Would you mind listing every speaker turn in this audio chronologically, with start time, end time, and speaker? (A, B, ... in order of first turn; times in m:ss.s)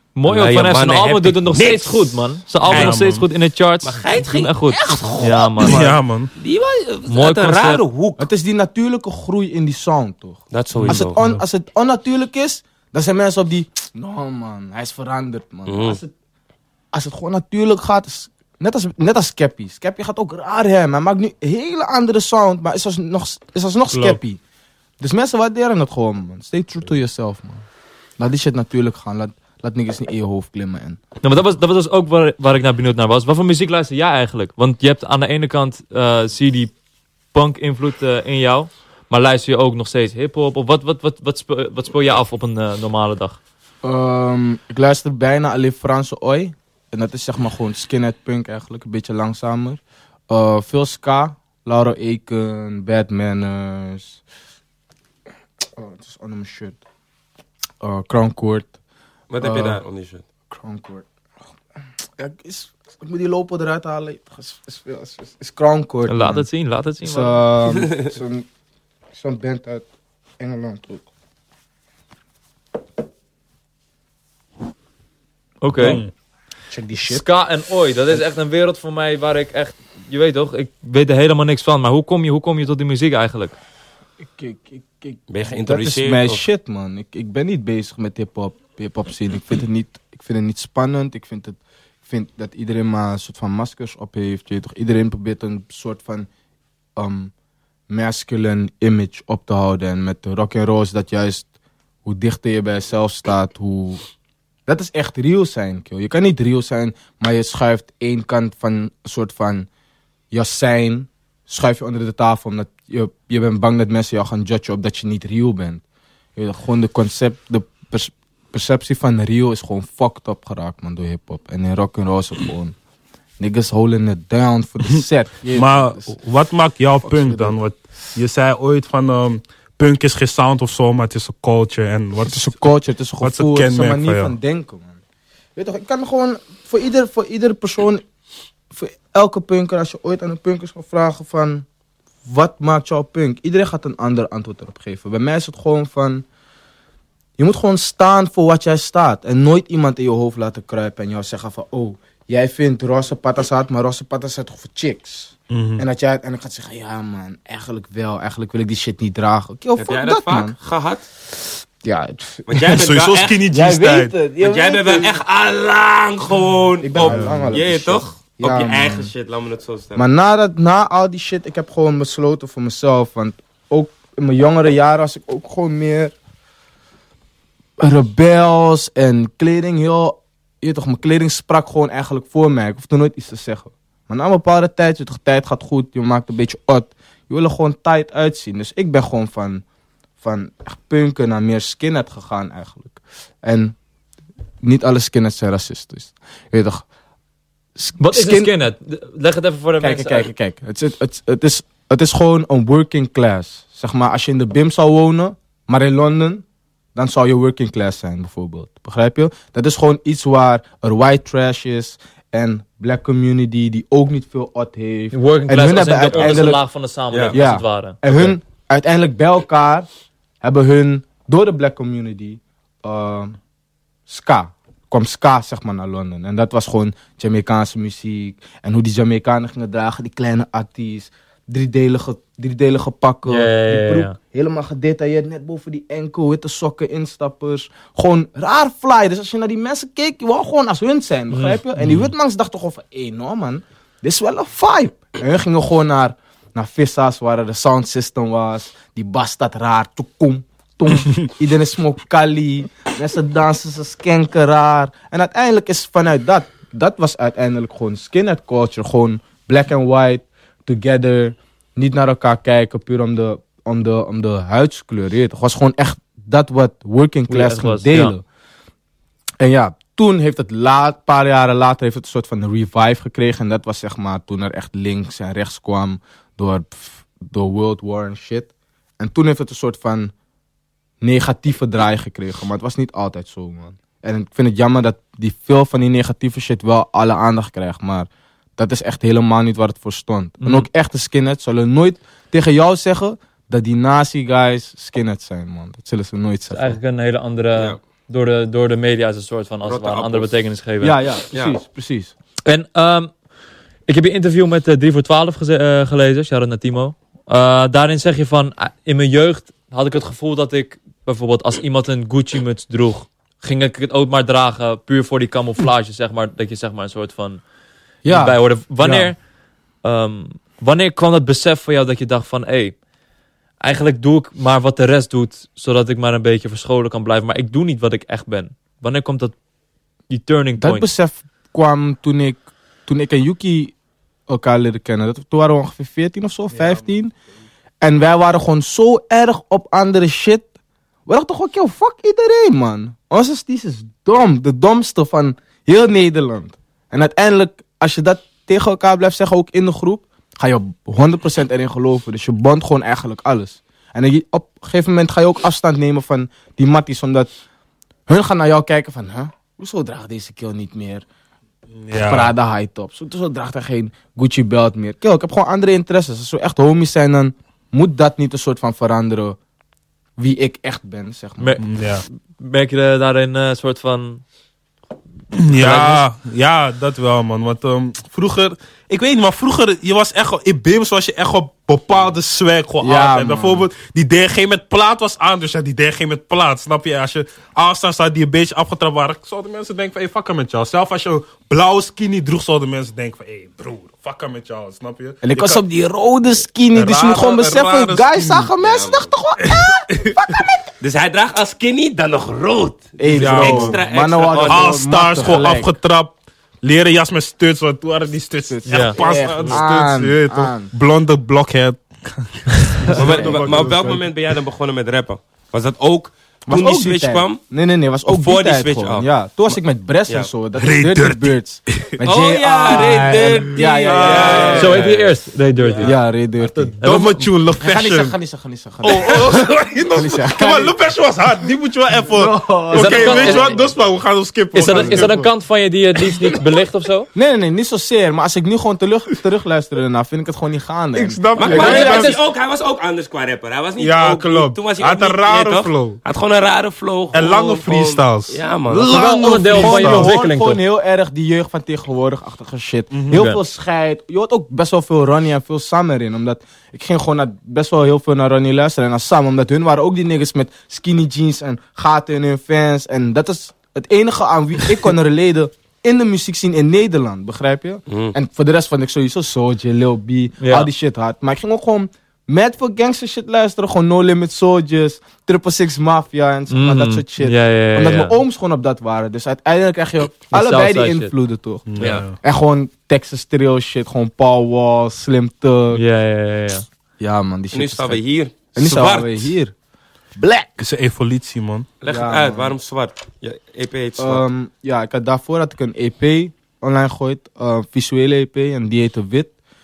0:00.2-0:06.0 A
0:00.2-0:03.0 B
0:02.6-0:03.3 C
0:03.8-0:08.3 B
0:05.6-0:06.3 C
0:07.1-0:07.8 A
0:08.2-0:16.1 D
0:10.5-0:11.2 B
0:10.8-0:11.4 C
0:15.7-0:16.0 B
0:16.9-0:24.4 D
0:23.9-0:24.2 C
0:25.0-0:27.7 D
0:28.2-0:31.0 D
0:31.2-0:36.7 A
0:37.3-0:43.4 A
0:43.8-0:54.2 D
0:55.7-0:56.8 D
0:57.8-0:58.7 D
0:59.3-1:00.2 B
0:59.4-0:59.8 D
1:00.5-1:01.1 D
1:02.2-1:06.5 D
1:06.1-1:07.4 A
1:07.0-1:08.5 D
1:07.8-1:08.1 B
1:09.1-1:09.9 D
1:10.4-1:11.1 D
1:15.6-1:16.0 A
1:15.8-1:16.1 C
1:16.7-1:17.3 D
1:17.1-1:23.6 A
1:24.2-1:36.3 D
1:25.3-1:26.4 B
1:37.0-1:37.3 D
1:37.9-1:41.5 D
1:42.0-1:44.0 D
1:44.7-1:49.7 D
1:50.3-1:55.8 D
1:56.4-2:02.8 D
2:03.4-2:06.1 D
2:04.9-2:12.6 C
2:07.0-2:07.6 D
2:12.3-2:15.0 D
2:13.2-2:14.3 C
2:15.6-2:18.0 D
2:18.7-2:21.7 D
2:22.2-2:26.2 D
2:27.4-2:40.6 D
2:35.5-2:35.8 C
2:39.8-2:41.0 B
2:41.8-2:42.6 D
2:42.5-2:43.4 B
2:42.6-2:44.2 C
2:43.5-2:45.1 D
2:44.4-2:50.0 B
2:46.8-2:49.1 D
2:47.0-2:47.4 C
2:50.0-2:56.2 D
2:57.8-3:09.6 D
3:10.2-3:13.8 D
3:14.6-3:16.8 D
3:17.8-3:18.5 D
3:18.0-3:20.3 A
3:19.8-3:26.4 D
3:27.0-3:36.6 D
3:35.1-3:38.0 A
3:37.1-3:37.4 B
3:37.3-3:39.9 D
3:40.4-3:43.4 D
3:44.1-4:28.2 D
3:53.3-3:54.1 A
4:01.3-4:01.6 A
4:01.8-4:02.1 C
4:27.3-4:28.1 A
4:29.4-4:40.1 D
4:41.0-4:56.8 D
4:56.5-5:01.0 A
4:59.6-5:00.4 B
5:00.8-5:02.1 D
5:02.4-5:03.1 A
5:03.9-5:17.4 A
5:18.0-5:19.1 D
5:18.1-5:19.2 A
5:19.8-5:22.8 A
5:23.6-5:29.4 A
5:30.1-5:30.9 A
5:30.6-5:33.7 D
5:34.3-5:37.1 D
5:37.8-5:40.5 D
5:41.1-5:57.3 D
5:58.1-6:01.0 D
6:01.8-6:02.3 C
6:01.9-6:09.4 D
6:10.2-6:11.6 D
6:11.6-6:12.0 C
6:12.4-6:14.2 A
6:15.4-6:35.6 C
6:15.5-6:16.0 A
6:22.8-6:23.7 D
6:35.2-6:40.7 D
6:36.7-6:38.5 C
6:38.6-6:39.1 B
6:39.4-6:40.2 C
6:40.8-6:44.8 B
6:43.0-6:45.7 D
6:43.1-6:43.8 C
6:44.4-6:54.0 C
6:48.5-6:50.7 D
6:48.7-6:49.0 A
6:52.9-6:53.9 D
6:52.9-6:57.4 B
6:56.5-7:05.0 D
6:58.1-6:59.1 B
7:00.6-7:02.0 C
7:02.0-7:05.1 B
7:03.6-7:05.0 C
7:04.5-7:06.0 A
7:05.8-7:06.8 D
7:06.7-7:08.2 C
7:06.8-7:07.3 A
7:07.6-7:10.8 D
7:08.8-7:15.3 C
7:12.1-7:13.7 D
7:12.7-7:13.6 A
7:14.5-7:17.1 A
7:14.6-7:15.3 D
7:16.0-7:16.6 C
7:17.1-7:22.0 D
7:20.9-7:22.2 C
7:21.4-7:29.0 B
7:21.4-7:22.2 A
7:23.8-7:26.0 C
7:27.1-7:30.2 C
7:28.9-7:30.6 A
7:28.9-8:05.8 D
7:32.9-7:33.3 C
7:33.1-7:33.4 A
7:47.9-7:48.2 B
7:50.4-7:50.7 A
7:56.5-7:58.2 A
8:00.3-8:01.1 A
8:01.7-8:02.2 C
8:01.8-8:02.0 B
8:05.7-8:06.7 A
8:07.0-8:08.0 D
8:07.5-8:09.3 B
8:08.6-8:09.5 D
8:10.2-8:10.6 D
8:10.6-8:11.7 C
8:11.8-8:14.2 B
8:11.9-8:12.6 D
8:14.0-8:19.3 D